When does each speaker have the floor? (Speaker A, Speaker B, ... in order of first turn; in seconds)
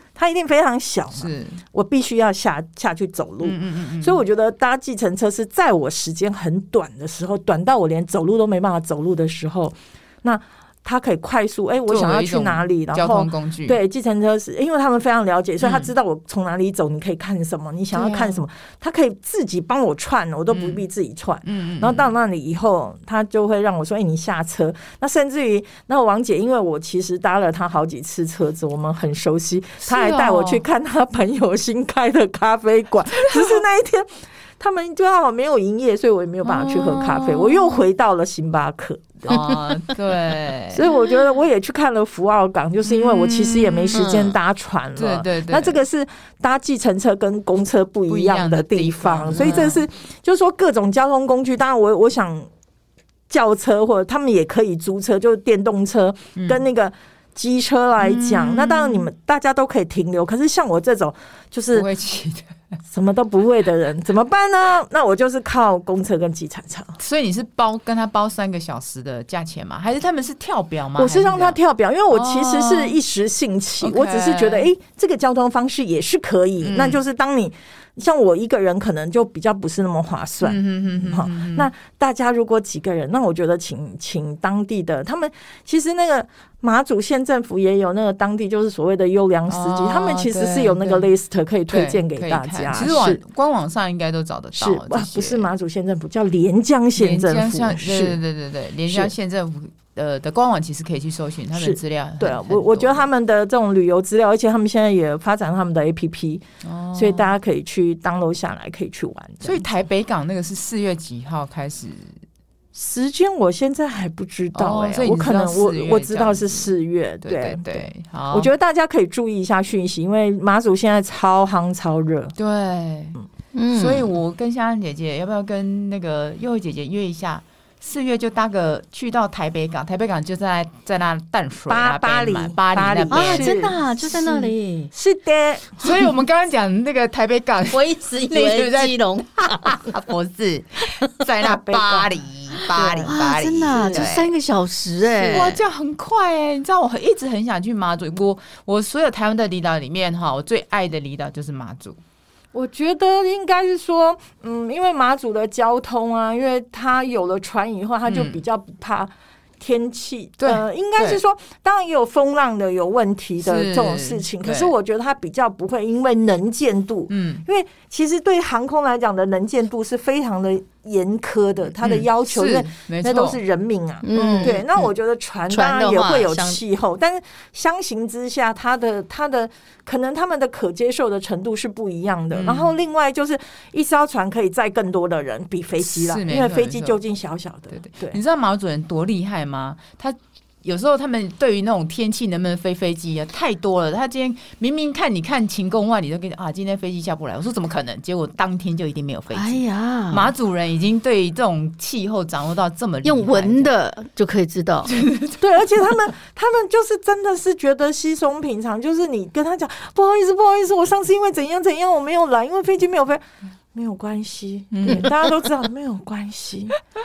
Speaker A: 0.2-39.6, 40.7-52.5, 53.3-61.9, 62.9-67.0, 71.0-93.2, 94.6-98.2, 101.5-109.8, 112.7-122.3, 131.7-133.8, 134.9-135.9, 141.4-142.1, 142.8-143.1, 143.7-144.1, 152.5-188.2, 205.4-216.8
Speaker B: 1.1-1.6, 3.4-4.2, 11.9-13.8, 15.6-15.9, 17.9-18.4, 20.5-20.8, 21.4-22.1, 29.8-30.6, 33.2-33.6, 36.5-37.7, 39.3-40.8, 42.9-44.2, 45.0-45.8, 48.1-49.8, 56.4-56.6, 58.0-59.1, 61.7-62.6, 67.0-71.6, 72.1-73.0, 73.8-74.7, 76.6-77.0, 80.4-81.7, 89.5-91.1, 91.7-95.5, 97.0-103.1, 106.6-107.3, 109.4-112.2, 114.5-116.7, 117.2-118.5, 122.4-123.2, 123.7-134.5, 135.8-144.3, 145.1-152.0, 158.1-158.4, 160.4-161.2, 163.4-164.7, 167.1-167.4, 171.8-173.4, 174.2-174.6, 182.3-182.7, 185.8-187.0, 187.7-203.7, 204.8-205.9, 214.7-215.3
Speaker C: 43.9-44.3, 123.5-124.1, 133.1-134.9, 137.7-139.9, 142.6-145.6, 174.0-174.9, 175.5-176.6, 199.3-200.3, 203.0-204.9